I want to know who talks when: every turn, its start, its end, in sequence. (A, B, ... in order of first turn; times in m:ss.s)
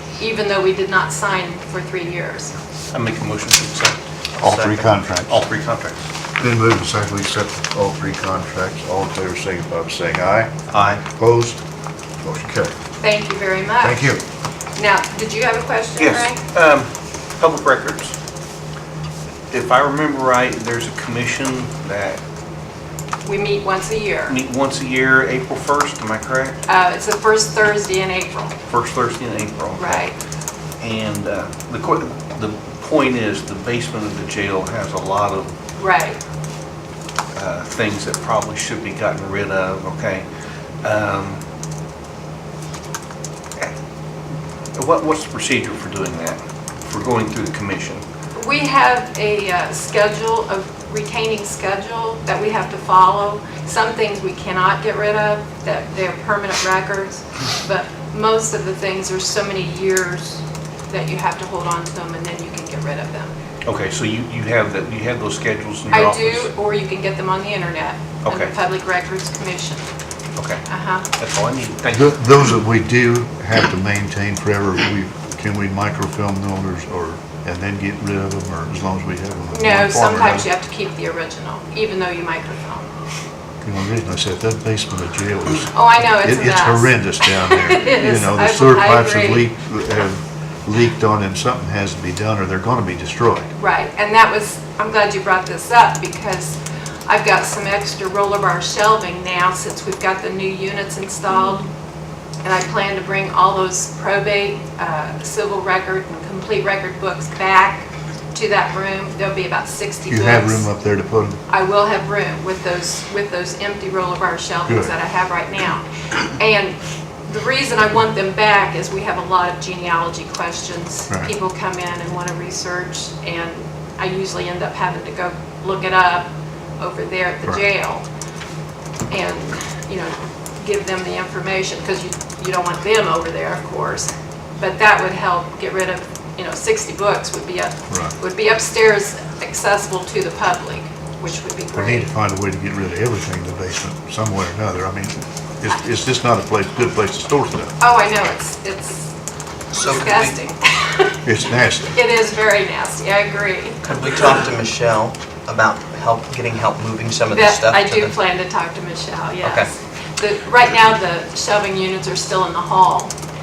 0:00.2-0:02.6 A
0:02.9-0:06.0 B
0:04.4-0:05.4 C
0:06.4-0:11.6 C
0:12.2-0:12.7 C
0:13.0-0:14.0 A
0:13.8-0:14.2 C
0:14.8-0:16.4 A
0:16.0-0:18.1 B
0:19.5-0:22.2 B
0:23.2-0:24.4 A
0:24.3-0:26.6 B
0:26.7-0:28.6 A
0:28.7-0:30.1 B
0:29.8-0:30.2 A
0:30.8-0:35.5 B
0:35.8-0:36.2 A
0:37.3-0:40.3 B
0:40.8-0:41.4 B
0:44.7-0:48.0 B
0:48.3-1:03.3 A
1:03.6-1:06.5 B
1:05.9-1:09.8 A
1:08.2-1:08.5 B
1:10.4-1:10.6 B
1:10.7-1:11.0 A
1:11.1-1:12.1 B
1:11.9-1:20.5 C
1:19.5-1:22.9 A
1:23.6-1:33.5 C
1:25.7-1:29.5 A
1:33.6-1:41.7 A
1:42.4-1:50.7 A
1:50.1-1:51.4 C
1:51.5-1:55.8 A
1:54.6-1:54.9 C
1:56.3-2:06.3 A
2:06.8-2:08.0 A
2:09.1-2:22.1 A
2:21.7-2:27.7 C
2:27.8-2:29.1 A
2:29.7-2:30.3 D
2:29.7-2:31.1 A
2:31.2-2:32.0 C
2:31.9-2:34.4 A
2:33.8-2:38.1 D
2:37.3-2:43.1 A
2:39.4-2:39.7 D